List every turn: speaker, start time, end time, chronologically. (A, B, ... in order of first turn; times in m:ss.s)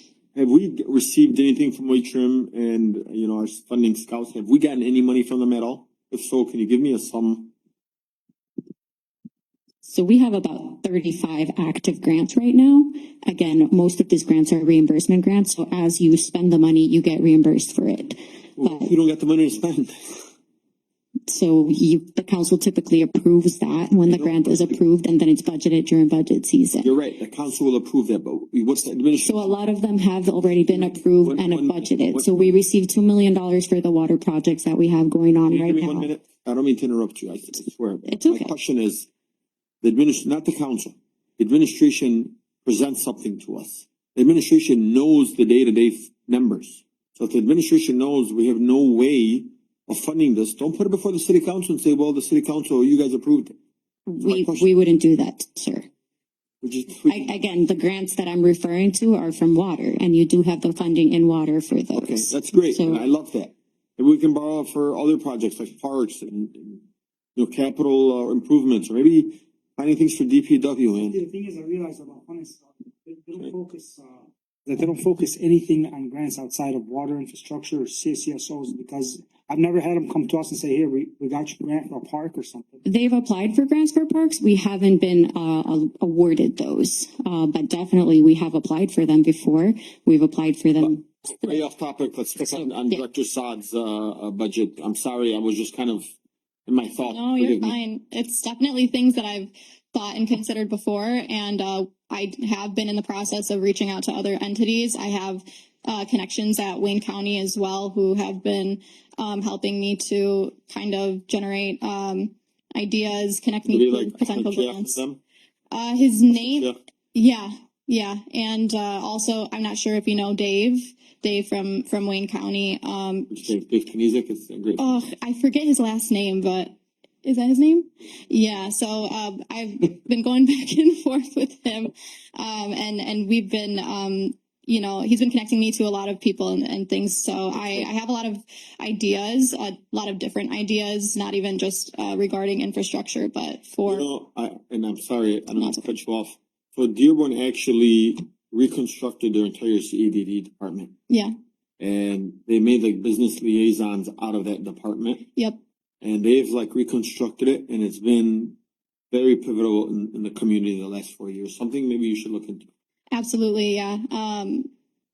0:00.4-0:07.5 A
0:09.8-0:18.9 B
0:18.6-0:20.2 A
0:21.3-0:26.9 B
0:24.1-0:24.8 A
0:26.8-0:29.4 A
0:29.2-0:36.1 B
0:30.8-0:32.3 A
0:35.5-0:39.1 A
0:38.1-0:38.5 B
0:39.8-0:53.6 A
0:54.1-0:55.9 B
0:54.2-0:54.7 A
0:56.6-0:57.3 A
0:57.1-1:03.0 B
1:01.9-1:06.8 A
1:07.4-1:11.2 A
1:11.0-1:22.8 C
1:22.9-1:31.0 B
1:30.8-1:36.1 A
1:32.5-1:33.0 B
1:36.7-1:37.8 A
1:37.0-1:55.0 D
1:53.7-1:55.2 A
1:55.7-2:03.5 D
1:56.4-1:56.8 A
2:03.3-2:05.0 A
2:04.8-2:24.1 D
2:17.6-2:17.9 A
2:23.8-2:30.9 A
2:25.6-2:25.9 D
2:31.8-2:35.3 A
2:36.0-2:38.6 A
2:39.1-2:42.7 A
2:43.1-2:44.7 D